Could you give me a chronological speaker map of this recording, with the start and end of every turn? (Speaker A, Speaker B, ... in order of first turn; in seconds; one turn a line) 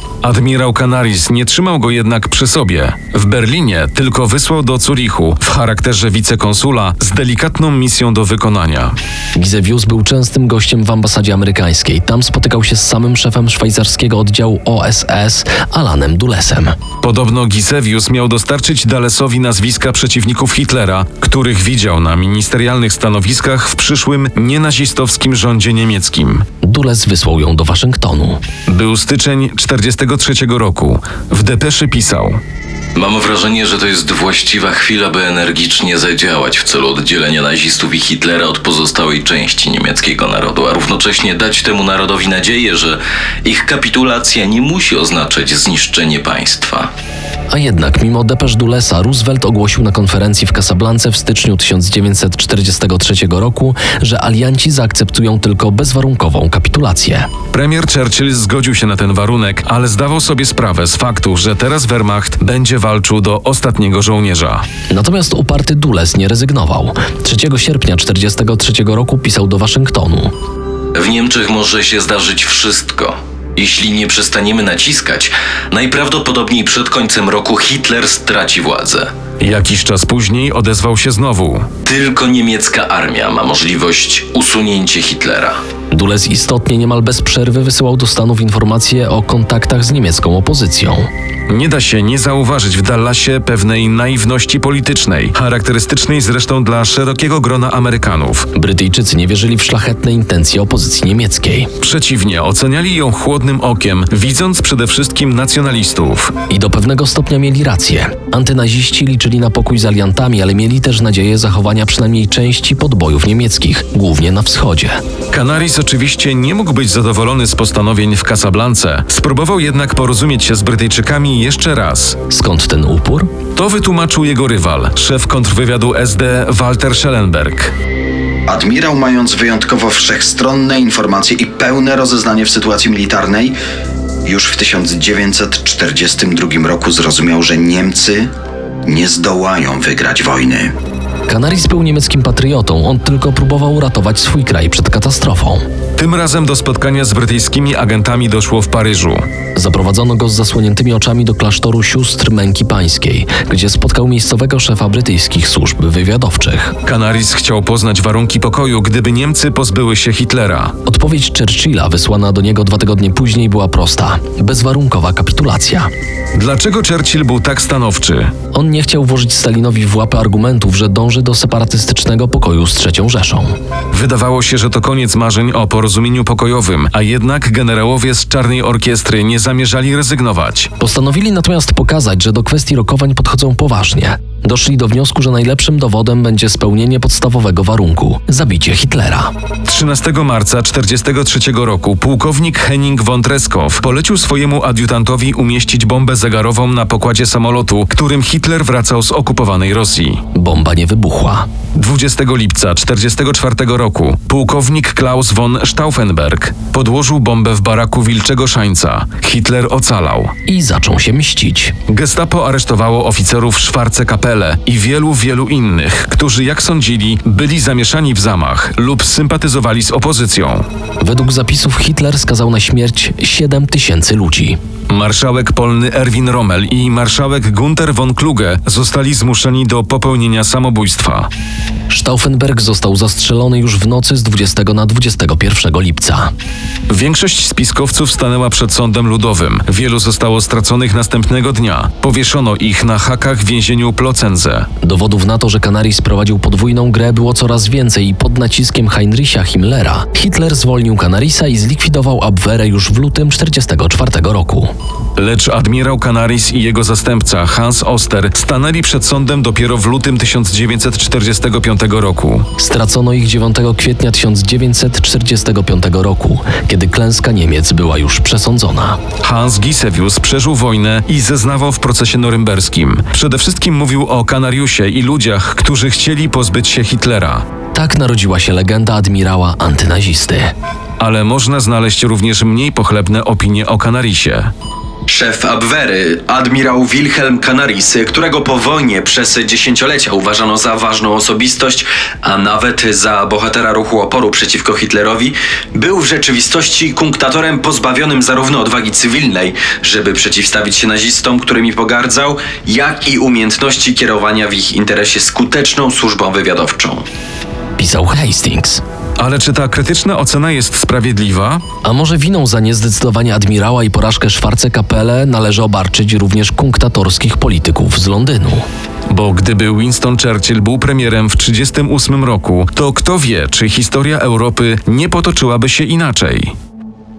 Speaker A: 0.2-8.9
Speaker B: 9.3-16.8
Speaker A: 17.0-26.4
Speaker B: 26.6-28.4
Speaker A: 28.7-32.4
Speaker C: 32.9-46.9
Speaker B: 47.5-57.3
Speaker A: 57.5-64.7
Speaker B: 64.9-70.3
Speaker C: 70.9-79.1
Speaker A: 79.4-81.7
Speaker C: 81.8-85.6
Speaker B: 85.9-91.1
Speaker A: 91.5-98.5
Speaker B: 98.5-101.7
Speaker A: 101.8-106.3
Speaker B: 106.5-115.0
Speaker A: 115.3-122.2
Speaker B: 122.3-123.3
Speaker A: 123.5-127.7
Speaker D: 128.5-133.5
Speaker D: 134.2-138.3
Speaker D: 138.8-140.7
Speaker B: 141.3-145.6
Speaker A: 146.0-149.2
Speaker B: 149.5-156.8
Speaker A: 156.8-160.8
Speaker B: 160.8-165.9
Speaker A: 166.3-168.3
Speaker B: 168.5-173.6
Speaker A: 173.9-180.7
Speaker B: 180.8-189.3
Speaker A: 189.7-200.2
Speaker B: 200.3-201.5
Speaker A: 201.8-210.3
Speaker B: 210.5-211.8
Speaker A: 211.9-220.7
Speaker B: 221.0-224.6
Speaker A: 224.9-231.3
Speaker B: 231.9-236.3
Speaker A: 236.9-244.7
Speaker B: 244.8-254.7
Speaker A: 255.2-262.5
Speaker B: 262.6-269.0
Speaker A: 269.2-277.4
Speaker B: 277.7-280.5
Speaker A: 281.0-284.5
Speaker E: 285.1-307.0
Speaker B: 307.8-308.8
Speaker A: 309.2-311.6
Speaker B: 311.8-318.6
Speaker A: 319.1-326.5